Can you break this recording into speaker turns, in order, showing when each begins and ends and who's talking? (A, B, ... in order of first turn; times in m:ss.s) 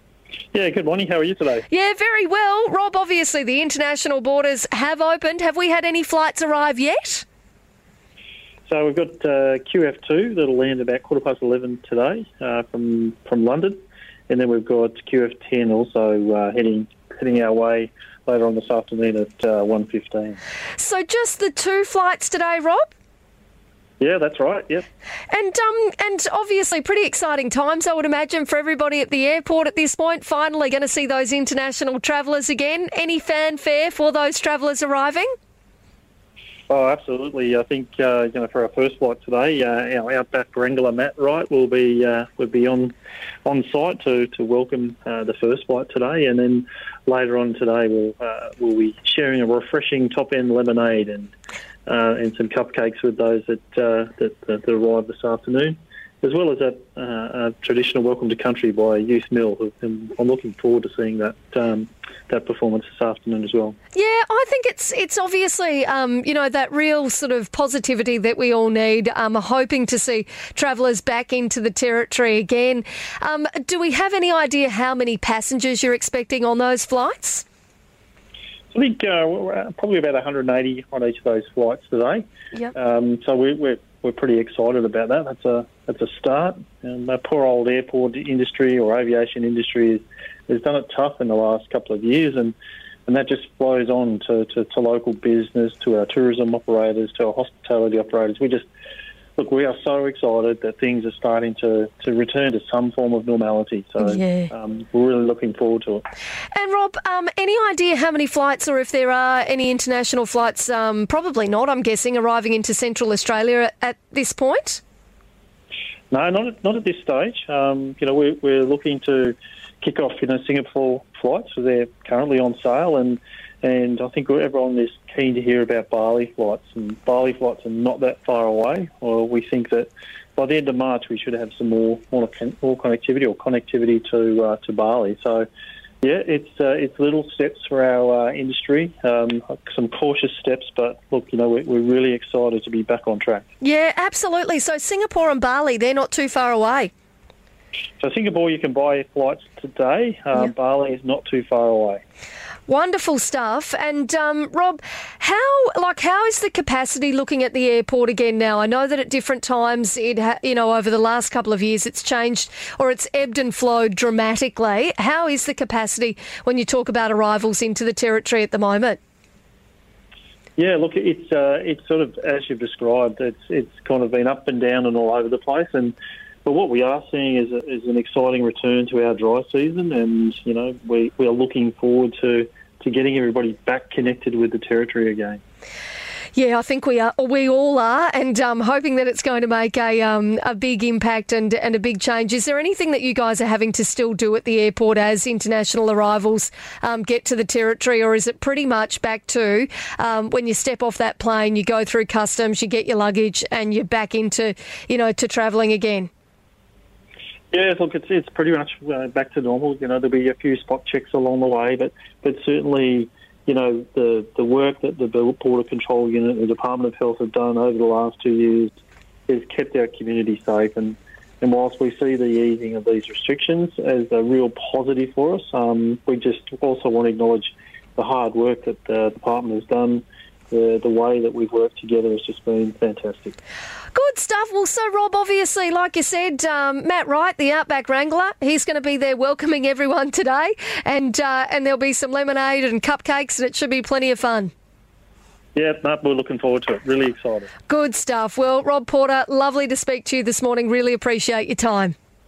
0:00.5-0:01.7 A
0:01.7-0:07.2 B
0:08.7-0:20.4 A
0:20.8-0:22.9 B
0:24.0-0:24.9 A
0:25.3-0:35.3 B
0:36.7-0:51.3 A
0:51.9-1:03.8 A
1:04.0-1:17.4 B
1:18.7-1:32.6 A
1:33.1-1:38.7 A
1:39.4-1:46.0 A
1:44.0-1:44.5 B
1:46.5-1:54.8 B
1:56.1-2:15.5 A
2:16.0-2:23.5 A
2:23.6-2:26.9 B
2:28.0-2:32.0 A
2:32.7-2:49.0 B
2:50.6-3:05.4 A
3:06.4-3:26.1 B
3:27.5-3:38.8 A
3:39.3-3:53.4 A
3:53.9-4:04.5 B
4:05.6-4:07.5 A
4:07.7-4:11.9 B